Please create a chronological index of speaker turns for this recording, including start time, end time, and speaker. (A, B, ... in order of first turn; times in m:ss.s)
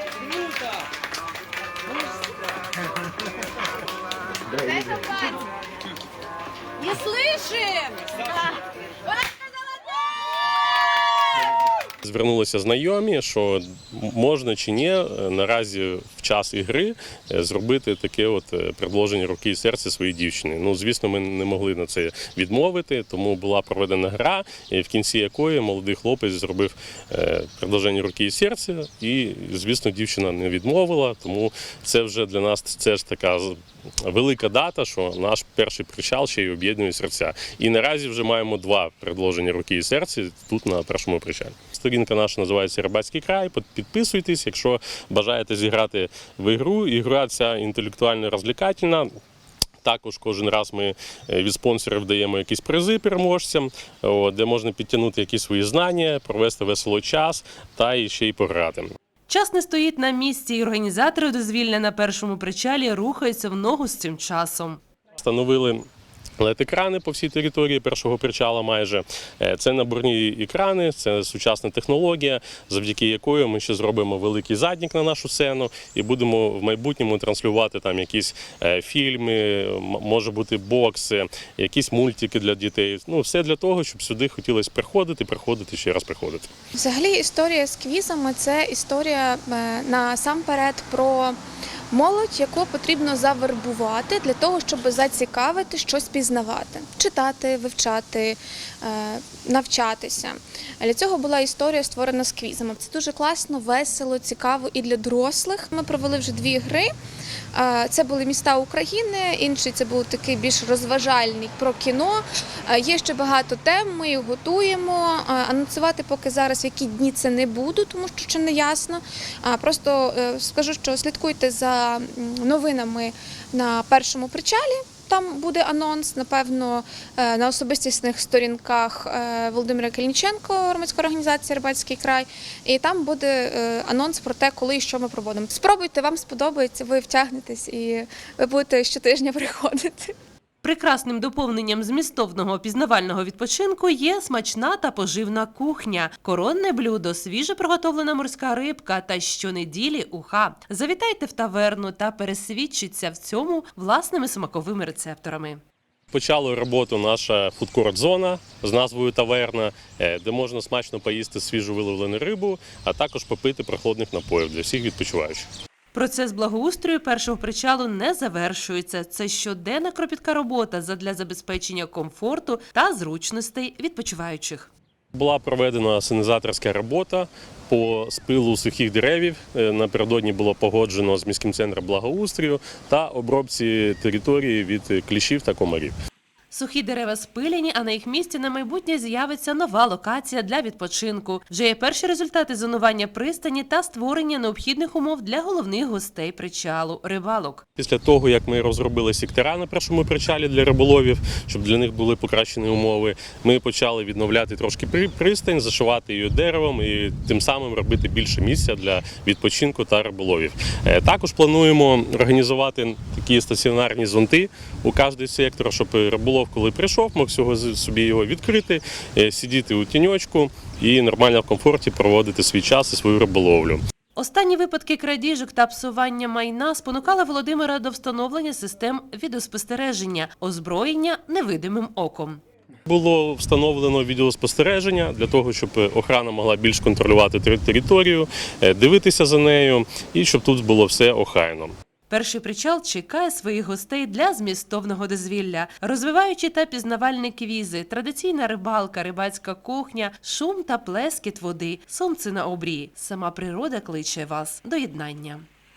0:04.6-0:05.4 A
0:07.0-0:07.7 B
0:07.1-0:08.2 A
0:12.0-0:49.1 C
0:49.8-0:58.9 C
0:59.3-1:04.8 D
1:05.2-1:05.8 C
1:06.4-1:26.5 C
1:26.7-1:31.4 B
1:31.9-1:46.9 B
1:47.5-2:20.1 B
2:20.6-2:35.6 D
2:36.1-2:45.5 C
2:45.9-2:54.7 D
2:55.1-3:05.9 C
3:06.5-3:17.6 D
3:17.8-3:43.8 C
3:44.2-3:52.4 D
3:52.8-4:01.7 C
4:02.1-4:15.4 D